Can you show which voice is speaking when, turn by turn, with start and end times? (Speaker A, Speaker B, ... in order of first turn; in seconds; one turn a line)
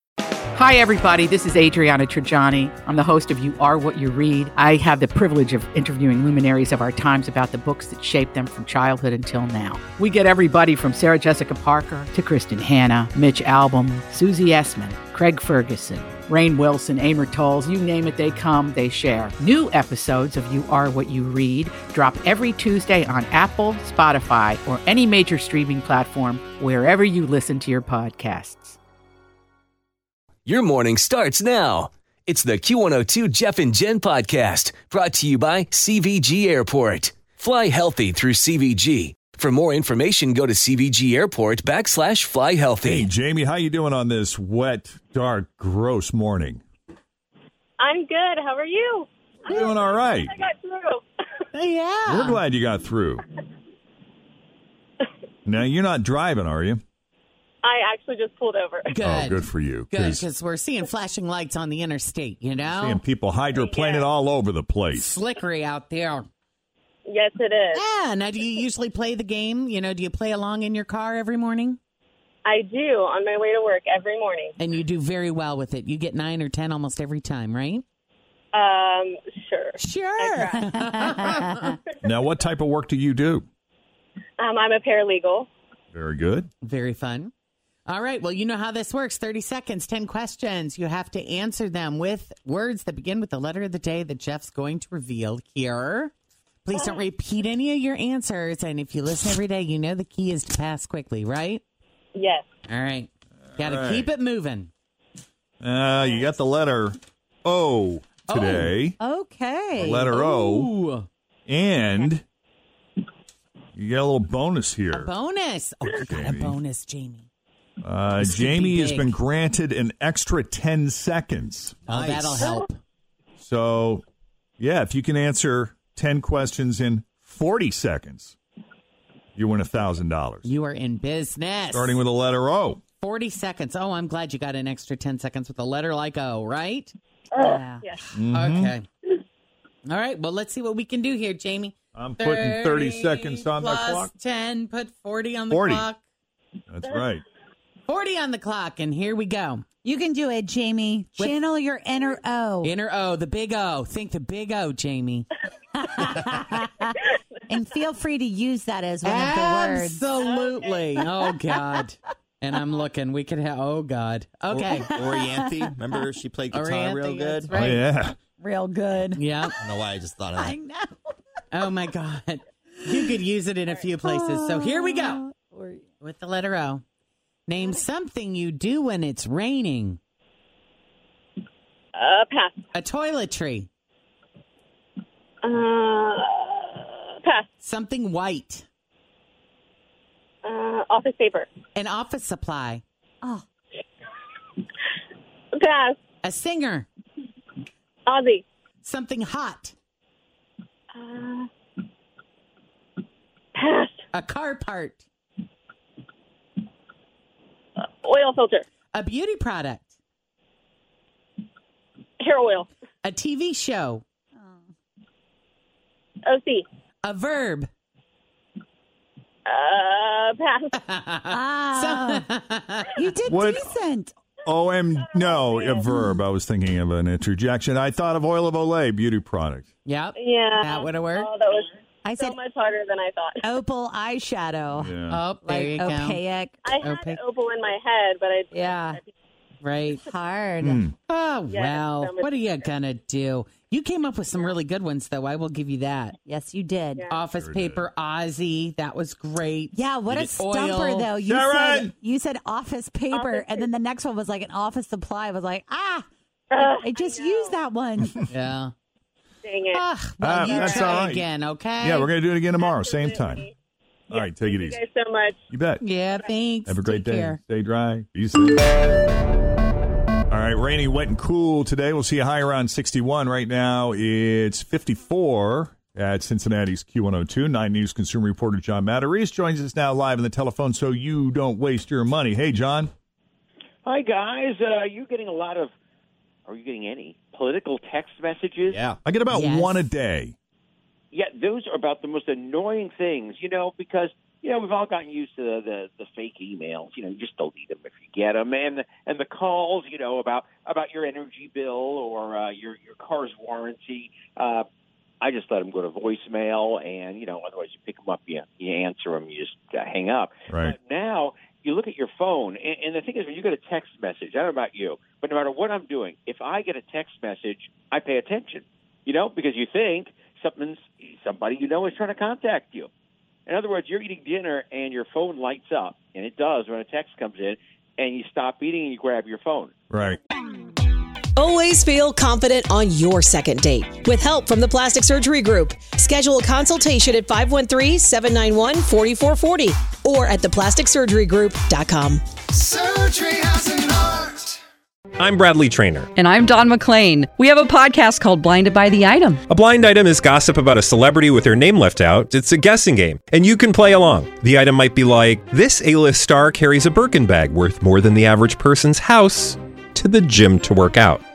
Speaker A: 0.6-28.8
Speaker B: 30.4-43.1
Speaker C: 42.8-46.6
Speaker D: 47.8-51.0
Speaker C: 49.5-50.3
Speaker E: 51.5-52.4
Speaker C: 52.0-53.2
Speaker C: 55.5-56.8
Speaker D: 57.6-58.9
Speaker E: 58.9-63.0
Speaker C: 59.0-60.2
Speaker C: 62.7-65.1
Speaker D: 63.5-64.0
Speaker E: 64.9-66.3
Speaker D: 67.0-67.8
Speaker E: 67.7-71.8
Speaker D: 72.5-74.5
Speaker E: 74.6-77.8
Speaker D: 78.5-81.1
Speaker E: 79.8-81.8
Speaker F: 80.7-81.0
Speaker C: 82.0-83.5
Speaker D: 84.4-85.5
Speaker C: 85.9-86.5
Speaker E: 86.6-87.3
Speaker E: 87.8-96.1
Speaker E: 96.6-101.6
Speaker D: 102.1-102.4
Speaker E: 102.7-104.7
Speaker C: 103.5-104.1
Speaker C: 105.6-109.0
Speaker E: 108.3-108.7
Speaker F: 109.0-110.1
Speaker C: 109.7-110.7
Speaker E: 110.1-111.1
Speaker C: 111.5-112.2
Speaker C: 113.8-115.1
Speaker E: 114.9-117.3
Speaker C: 116.1-116.6
Speaker C: 117.8-121.8
Speaker E: 118.2-119.2
Speaker E: 121.9-122.8
Speaker G: 121.9-122.6
Speaker C: 123.4-124.0
Speaker C: 124.6-128.4
Speaker C: 129.3-130.5
Speaker E: 130.4-132.0
Speaker C: 131.7-132.8
Speaker E: 133.0-136.9
Speaker D: 137.3-138.0
Speaker F: 137.5-137.8
Speaker C: 138.1-138.7
Speaker E: 138.3-138.8
Speaker E: 139.8-146.0
Speaker C: 141.9-144.1
Speaker C: 145.5-145.8
Speaker C: 146.7-147.2
Speaker E: 147.9-149.7
Speaker F: 149.8-152.7
Speaker E: 152.6-155.3
Speaker F: 156.0-156.9
Speaker F: 157.5-160.0
Speaker E: 159.0-165.0
Speaker G: 164.5-167.5
Speaker E: 166.5-167.8
Speaker C: 167.5-168.2
Speaker F: 168.4-169.5
Speaker E: 169.1-169.5
Speaker G: 169.6-170.6
Speaker F: 170.3-171.0
Speaker E: 171.5-175.2
Speaker F: 174.0-175.8
Speaker E: 176.0-176.8
Speaker E: 177.5-180.0
Speaker D: 181.9-182.5
Speaker E: 182.7-183.7
Speaker D: 185.4-187.5
Speaker E: 187.6-188.7
Speaker D: 190.4-191.5
Speaker E: 191.7-192.8
Speaker D: 195.5-196.0
Speaker E: 196.2-196.8
Speaker D: 198.1-198.4
Speaker E: 198.8-199.7
Speaker D: 200.9-201.5
Speaker D: 203.5-203.9
Speaker E: 204.1-205.0
Speaker D: 208.0-208.6
Speaker E: 208.9-209.9
Speaker D: 212.2-212.7
Speaker E: 213.0-214.0
Speaker D: 216.2-216.7
Speaker E: 217.0-217.7
Speaker D: 219.4-220.8
Speaker E: 220.9-223.5
Speaker F: 221.3-222.2
Speaker F: 223.0-224.1
Speaker C: 223.3-223.7
Speaker C: 224.4-229.7
Speaker D: 225.3-225.8
Speaker F: 225.9-226.2
Speaker E: 229.8-231.3
Speaker D: 230.1-233.6
Speaker F: 232.0-232.3
Speaker F: 233.4-236.5
Speaker C: 234.7-235.3
Speaker E: 235.1-236.2
Speaker D: 236.6-239.1
Speaker E: 236.8-237.2
Speaker F: 238.5-239.0
Speaker E: 239.6-240.1
Speaker F: 240.1-240.8
Speaker C: 240.6-240.9
Speaker E: 241.1-246.2
Speaker D: 241.5-242.7
Speaker F: 246.3-247.1
Speaker D: 246.9-247.2
Speaker E: 247.1-251.1
Speaker C: 247.3-247.8
Speaker F: 249.7-256.0
Speaker C: 251.2-251.9
Speaker D: 253.1-253.7
Speaker D: 256.5-257.7
Speaker F: 256.6-258.1
Speaker E: 258.3-258.7
Speaker D: 259.4-259.8
Speaker E: 259.7-262.1
Speaker C: 260.2-261.2
Speaker D: 260.4-261.0
Speaker C: 261.8-263.5
Speaker D: 262.6-263.5
Speaker C: 264.1-264.8
Speaker D: 264.1-265.4
Speaker C: 265.5-265.8
Speaker E: 265.8-267.4
Speaker C: 266.6-268.7
Speaker C: 270.3-282.9
Speaker H: 283.8-285.7
Speaker H: 286.5-288.8
Speaker G: 288.7-289.0
Speaker C: 289.0-290.3
Speaker E: 289.3-289.9
Speaker H: 291.1-304.6
Speaker H: 305.2-322.9
Speaker C: 310.5-310.8
Speaker H: 323.5-329.7
Speaker C: 329.9-330.2
Speaker I: 331.4-342.2
Speaker J: 345.2-346.1
Speaker K: 346.2-349.4
Speaker J: 349.5-361.2